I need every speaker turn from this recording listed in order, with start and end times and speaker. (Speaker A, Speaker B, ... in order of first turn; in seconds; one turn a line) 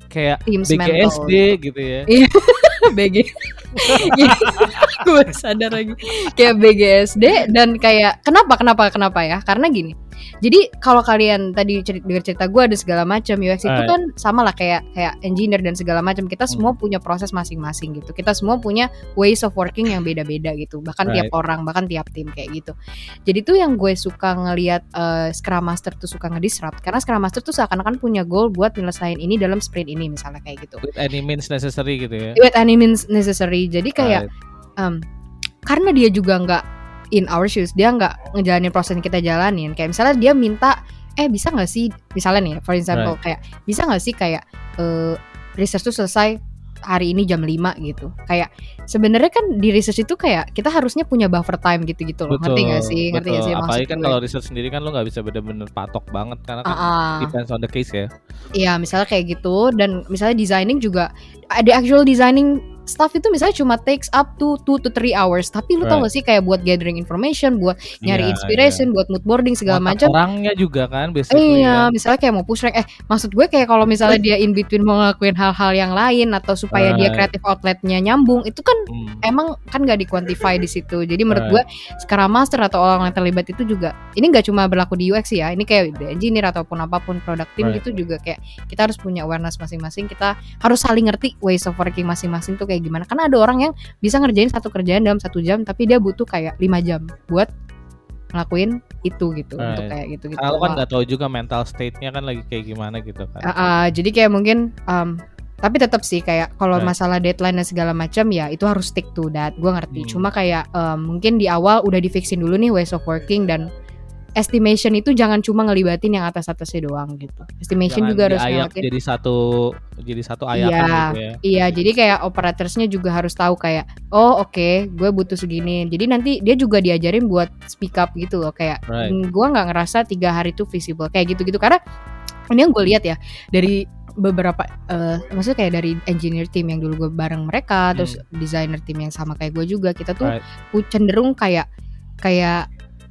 Speaker A: 0.1-2.1
Speaker B: 0.5-1.4
Speaker B: 2.1-22.7
Speaker A: 3.8-5.0
Speaker A: 13.6-13.9
Speaker A: 16.5-16.7
Speaker A: 21.0-21.3
Speaker B: 23.3-30.8
Speaker A: 30.8-32.4
Speaker B: 32.4-34.2
Speaker A: 34.0-34.3
Speaker B: 34.8-35.0
Speaker B: 35.6-54.2
Speaker A: 52.3-58.1
Speaker B: 56.6-57.3
Speaker B: 58.5-70.2
Speaker A: 65.8-66.1
Speaker A: 68.0-68.9
Speaker A: 69.7-71.9
Speaker B: 71.3-97.5
Speaker A: 76.7-77.3
Speaker A: 78.9-79.2
Speaker A: 81.3-81.6
Speaker B: 98.3-100.8
Speaker A: 99.6-103.5
Speaker B: 103.4-113.7
Speaker A: 109.9-110.3
Speaker B: 114.4-118.9
Speaker A: 117.8-121.4
Speaker B: 120.5-131.8
Speaker A: 128.9-129.2
Speaker B: 132.5-141.7
Speaker A: 137.9-138.2
Speaker B: 142.2-142.7